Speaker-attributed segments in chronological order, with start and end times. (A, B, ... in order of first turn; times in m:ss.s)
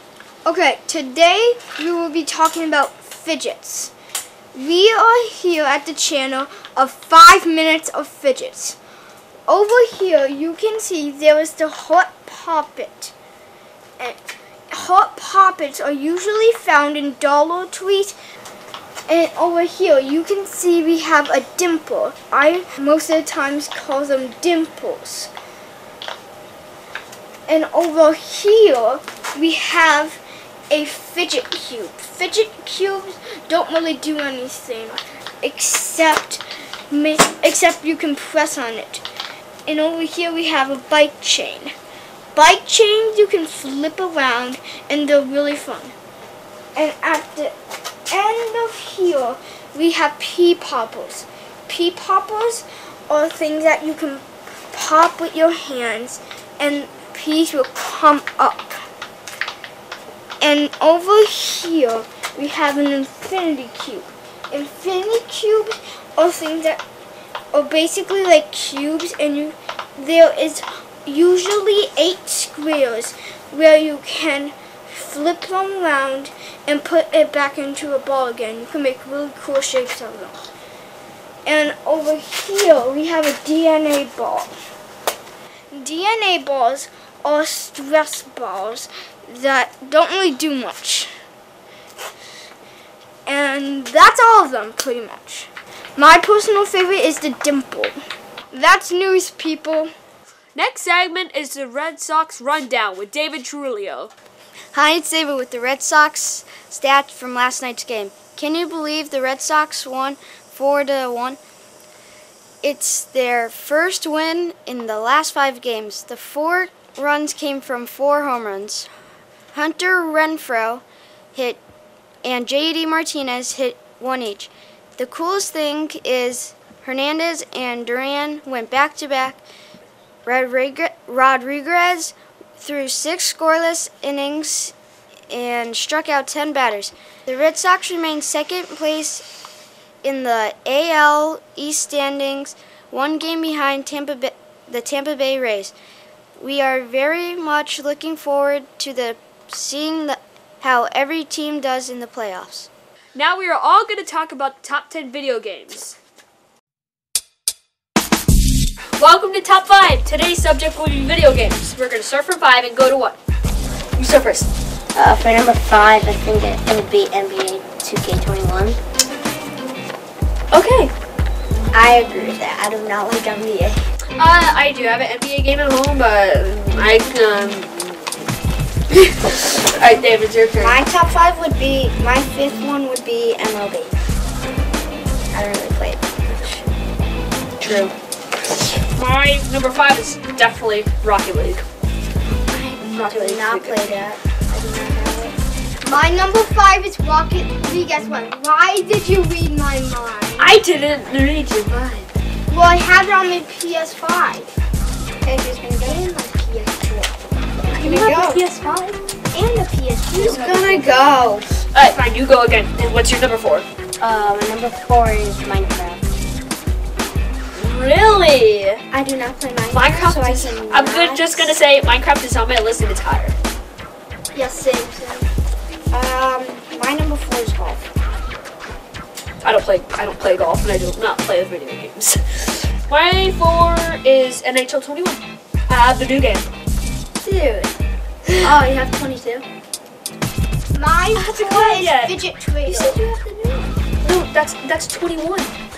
0:00.4-0:03.9 A
0:04.5-0:08.8 A
0:09.5-0:13.1 A
0:14.7-0:18.1 A
0:19.1-0:25.3 A
0:27.5-0:39.0 A
0:39.6-0:41.7 A
0:42.3-0:45.9 A
0:46.7-0:47.5 A
0:48.1-0:58.8 A
1:00.4-1:06.8 A
1:07.5-1:20.4 A
1:21.4-1:24.5 A
1:25.7-1:31.1 A
1:33.2-1:38.0 A
1:38.5-1:39.9 A
1:40.5-1:44.1 B
1:44.7-1:51.4 C
1:52.6-1:58.9 C
1:59.5-2:00.8 C
2:01.3-2:01.6 C
2:02.2-2:09.4 C
2:10.2-2:14.7 C
2:15.3-2:19.2 C
2:20.0-2:25.7 C
2:26.4-2:32.7 C
2:33.1-2:36.0 B
2:39.0-2:43.2 B
2:44.0-2:44.5 B
2:44.9-2:48.8 D
2:50.5-2:50.9 B
2:51.7-2:53.8 D
2:54.2-2:58.1 B
2:58.9-3:00.8 B
3:00.6-3:04.0 D
3:05.3-3:06.6 D
3:07.6-3:07.9 B
3:08.8-3:11.6 B
3:12.5-3:15.3 D
3:12.9-3:13.9 B
3:15.8-3:20.6 A
3:20.4-3:22.1 B
3:22.5-3:24.5 A
3:25.2-3:26.0 D
3:25.8-3:27.1 A
3:27.7-3:29.0 B
3:27.7-3:28.4 A
3:29.3-3:31.0 A
3:30.1-3:31.5 D
3:31.7-3:33.6 B
3:34.0-3:36.0 D
3:37.5-3:38.8 B
3:38.9-3:41.4 D
3:39.7-3:43.3 B
3:44.3-3:45.3 A
3:45.9-3:47.8 D
3:49.4-3:56.5 B
3:57.2-3:57.7 D
3:58.4-3:59.4 D
4:00.7-4:03.0 A
4:01.2-4:02.2 B
4:02.7-4:03.7 D
4:04.0-4:05.5 B